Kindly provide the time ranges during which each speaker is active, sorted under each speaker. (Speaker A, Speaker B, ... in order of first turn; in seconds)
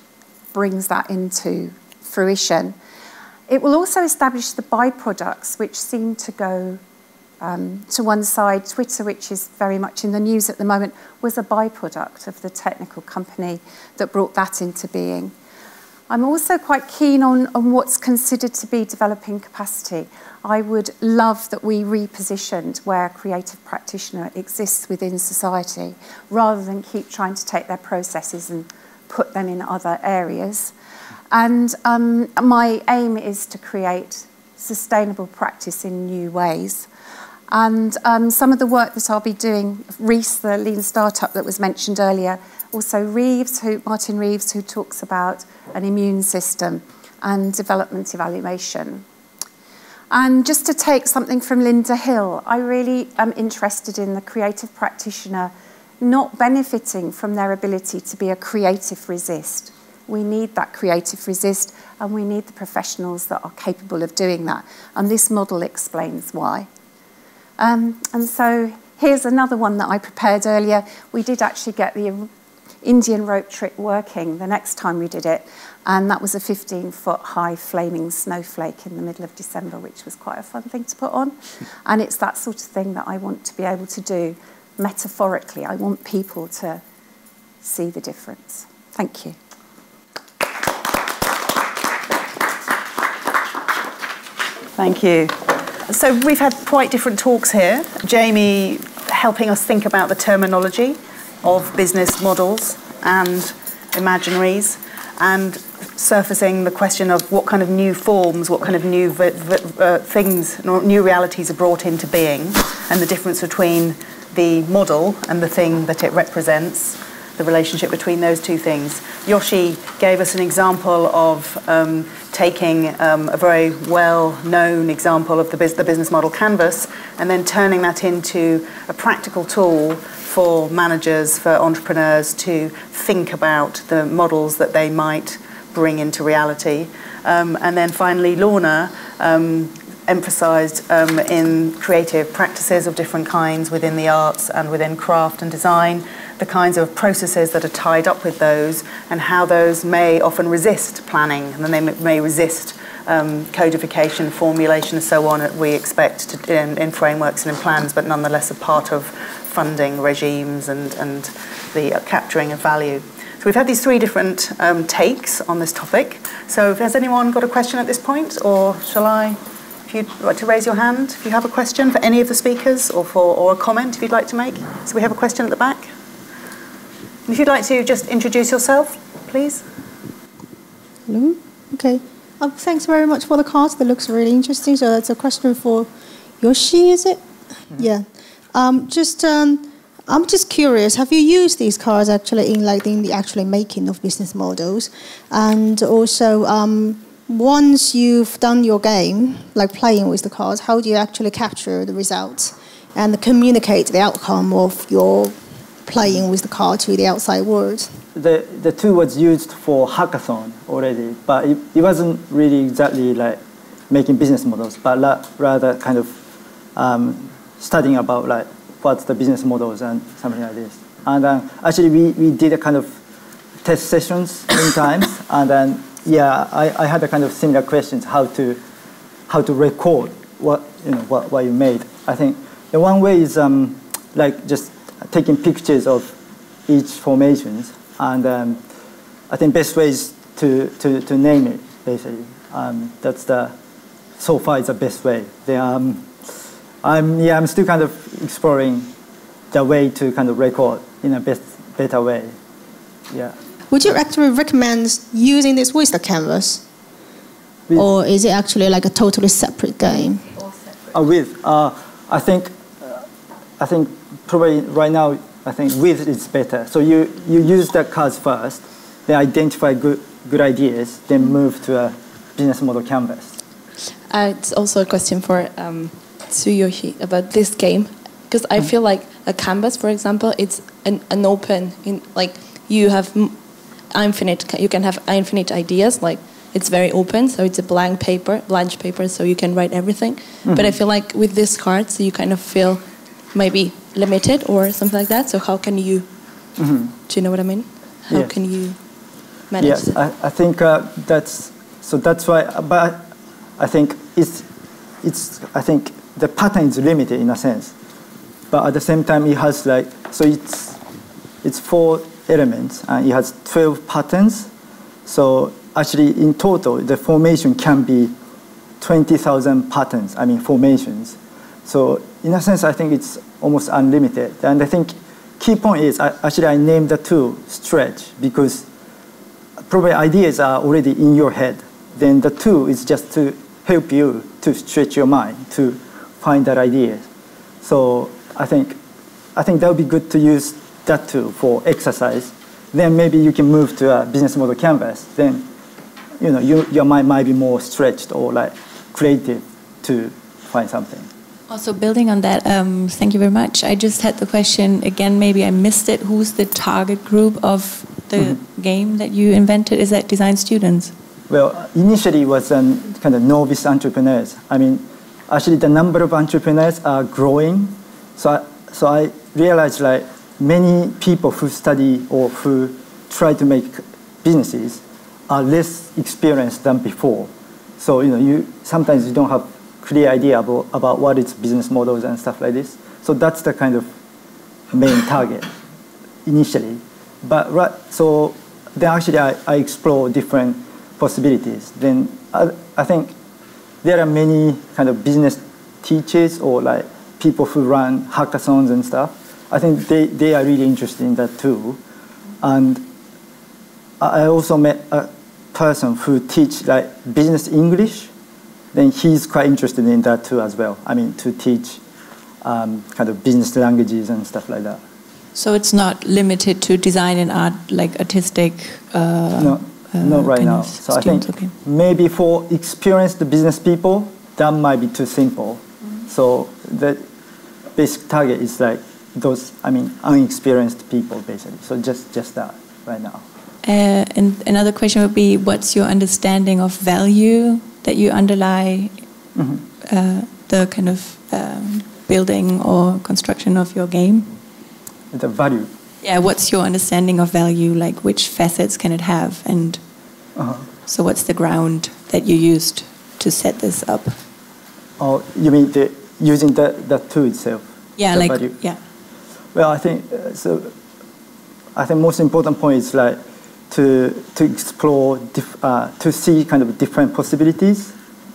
Speaker A: 0.5-2.7, 3.5-6.8, 7.4-15.3, 16.1-30.7, 31.3-36.9, 37.5-49.0, 50.1-66.7, 67.6-72.3, 72.8-81.3, 81.8-86.8, 87.6-89.3
Speaker B: 94.8-175.9, 177.3-179.6
Speaker C: 181.1-207.9, 253.7-256.6, 257.7-260.3
Speaker D: 208.1-216.2, 216.8-223.0, 223.6-228.6, 229.3-236.2, 236.7-238.6, 239.3-243.5, 244.2-246.1, 246.8-248.9, 249.5-252.3, 253.1-253.3, 260.9-263.0, 263.6-273.4, 290.5-290.8, 296.6-296.9, 298.1-298.3, 299.6-304.4, 305.0-307.7, 308.5-310.8, 311.4-314.5, 315.1-318.1, 318.8-328.6, 329.7-337.1, 337.6-338.8, 339.3-345.5, 346.2-351.1, 361.3-383.9, 384.7-385.5, 386.2-393.1, 393.8-401.8, 402.4-402.9, 404.0-408.1, 408.7-411.8, 412.4-414.8, 419.3-427.0, 427.8-433.2, 439.4-439.6, 445.1-445.7, 450.4-450.6, 455.0-458.6, 459.5-460.7, 461.7-467.9
Speaker E: 274.1-296.1, 297.0-298.8, 299.5-300.0
Speaker F: 351.5-360.9, 415.3-421.5, 433.6-439.0, 439.8-444.4, 446.0-449.8, 450.9-454.2, 458.0-458.8